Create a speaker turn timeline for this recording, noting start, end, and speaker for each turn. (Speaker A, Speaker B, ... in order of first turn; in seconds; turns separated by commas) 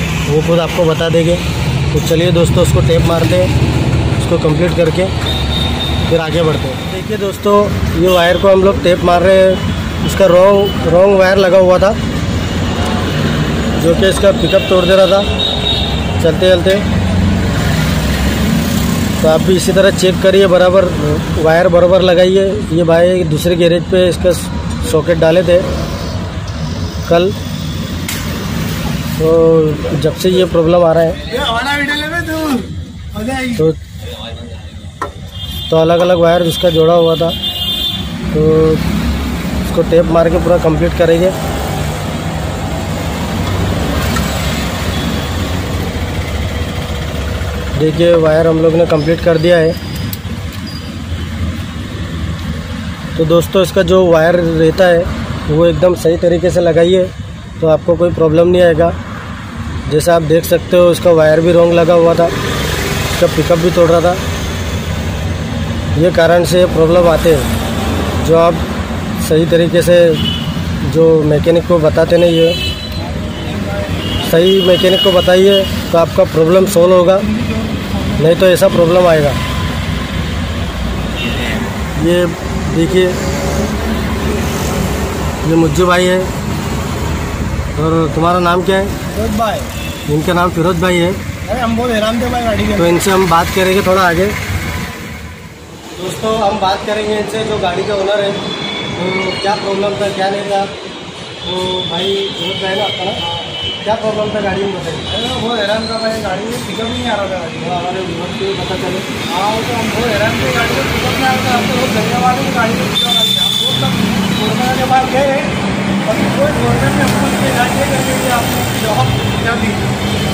Speaker A: 0.3-3.5, Speaker A: 4.2-5.1, Speaker A: 6.1-12.0, Speaker A: 13.8-15.3, Speaker A: 16.2-16.9, Speaker A: 19.2-25.7, Speaker A: 27.1-27.4, Speaker A: 29.2-31.3, Speaker B: 31.3-33.6, Speaker A: 33.5-33.8, Speaker A: 35.7-37.4, Speaker A: 38.3-38.8, Speaker A: 39.6-41.4, Speaker A: 47.8-49.8, Speaker A: 53.1-58.9, Speaker A: 59.9-62.3, Speaker A: 63.1-64.2, Speaker A: 65.9-67.5, Speaker A: 68.2-68.6, Speaker A: 69.2-70.2, Speaker A: 70.8-72.6, Speaker B: 73.6-73.8, Speaker A: 74.2-77.3, Speaker B: 77.4-78.1, Speaker A: 78.2-79.4, Speaker A: 81.9-83.2, Speaker B: 83.7-84.4, Speaker A: 85.4-86.3, Speaker A: 87.8-88.9, Speaker B: 89.1-89.7, Speaker A: 90.1-91.2, Speaker B: 91.4-92.9, Speaker A: 92.8-94.3, Speaker A: 95.9-98.4, Speaker A: 98.9-100.7, Speaker A: 101.4-103.2, Speaker A: 103.8-105.1, Speaker B: 105.1-107.7, Speaker A: 107.6-109.1, Speaker B: 109.2-119.9